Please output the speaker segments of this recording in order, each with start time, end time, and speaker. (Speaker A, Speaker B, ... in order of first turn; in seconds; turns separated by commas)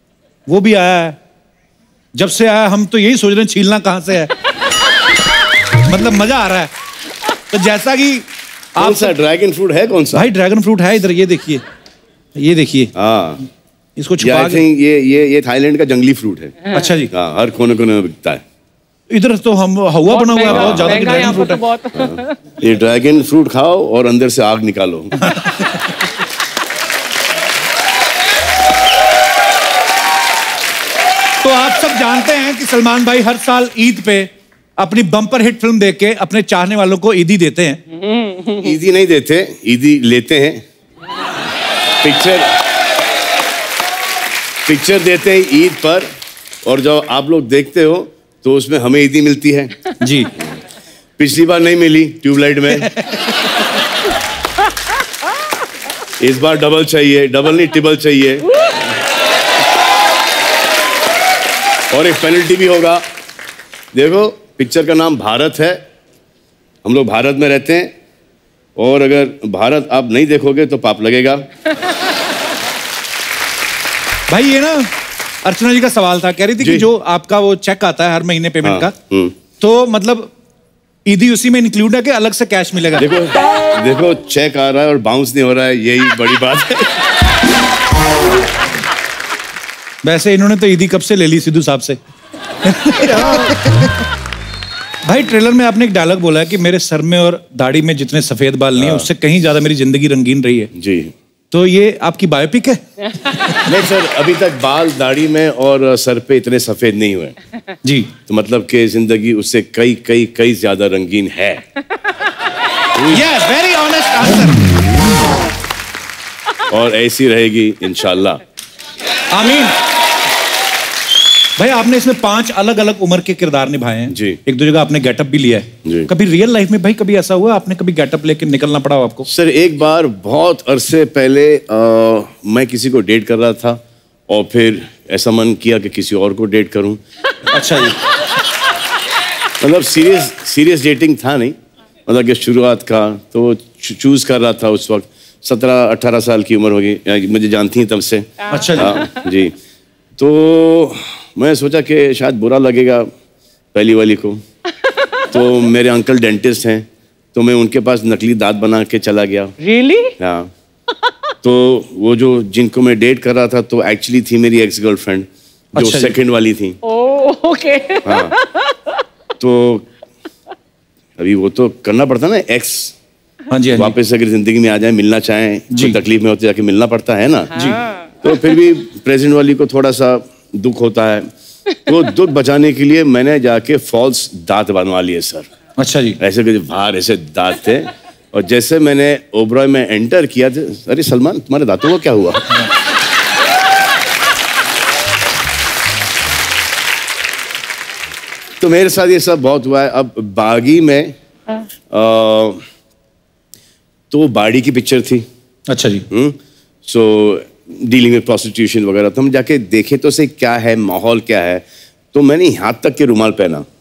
Speaker A: 0.5-1.2, Speaker A: 2.2-4.3, Speaker A: 5.8-6.7, Speaker A: 7.5-9.1, Speaker B: 8.8-10.3, Speaker A: 10.1-11.6, Speaker A: 12.4-12.9, Speaker B: 12.9-13.4, Speaker A: 14.0-14.6, Speaker B: 14.2-18.4, Speaker A: 16.7-17.1, Speaker A: 19.1-21.6, Speaker C: 20.1-22.4, Speaker B: 20.5-21.1, Speaker B: 21.9-25.2, Speaker A: 25.2-25.9, Speaker A: 31.4-37.8, Speaker C: 38.0-38.6, Speaker B: 38.6-40.6, Speaker B: 42.0-42.6, Speaker B: 44.6-46.1, Speaker B: 46.6-49.8, Speaker A: 50.0-50.3, Speaker B: 51.2-53.0, Speaker B: 56.2-58.7, Speaker B: 61.9-63.0, Speaker B: 63.9-65.8, Speaker B: 66.8-67.9, Speaker B: 68.8-71.5, Speaker A: 74.3-74.9, Speaker A: 75.5-79.0, Speaker B: 76.6-76.9, Speaker B: 78.6-79.3, Speaker A: 79.6-80.3, Speaker A: 81.1-83.1, Speaker B: 83.0-87.0, Speaker A: 90.0-92.0, Speaker A: 92.7-93.8, Speaker A: 95.0-100.7, Speaker B: 98.8-99.1, Speaker B: 100.7-101.2, Speaker A: 101.5-103.7, Speaker B: 103.7-107.4, Speaker A: 107.8-108.1, Speaker B: 108.3-111.7, Speaker B: 113.0-113.3, Speaker A: 113.1-114.7, Speaker B: 116.7-118.4, Speaker A: 119.3-119.8, Speaker A: 121.6-129.3, Speaker B: 124.1-124.4, Speaker B: 129.3-137.0, Speaker A: 137.5-138.0, Speaker B: 139.6-141.6, Speaker B: 142.1-149.6, Speaker A: 148.5-149.1, Speaker B: 150.2-153.1, Speaker B: 153.7-154.4, Speaker B: 155.3-159.6, Speaker C: 159.6-160.2, Speaker B: 160.2-160.5, Speaker B: 161.4-166.8, Speaker A: 165.8-166.1, Speaker C: 166.8-169.0, Speaker B: 168.1-168.3, Speaker B: 169.4-169.9, Speaker B: 171.2-172.9, Speaker A: 173.5-173.9, Speaker B: 173.8-177.6, Speaker A: 175.7-176.0, Speaker A: 177.6-177.8, Speaker C: 177.6-178.0, Speaker B: 178.2-185.5, Speaker A: 185.8-186.2, Speaker B: 186.2-192.4, Speaker B: 198.6-201.2, Speaker B: 201.9-202.6, Speaker B: 204.1-205.2, Speaker A: 205.7-206.1, Speaker B: 206.1-213.7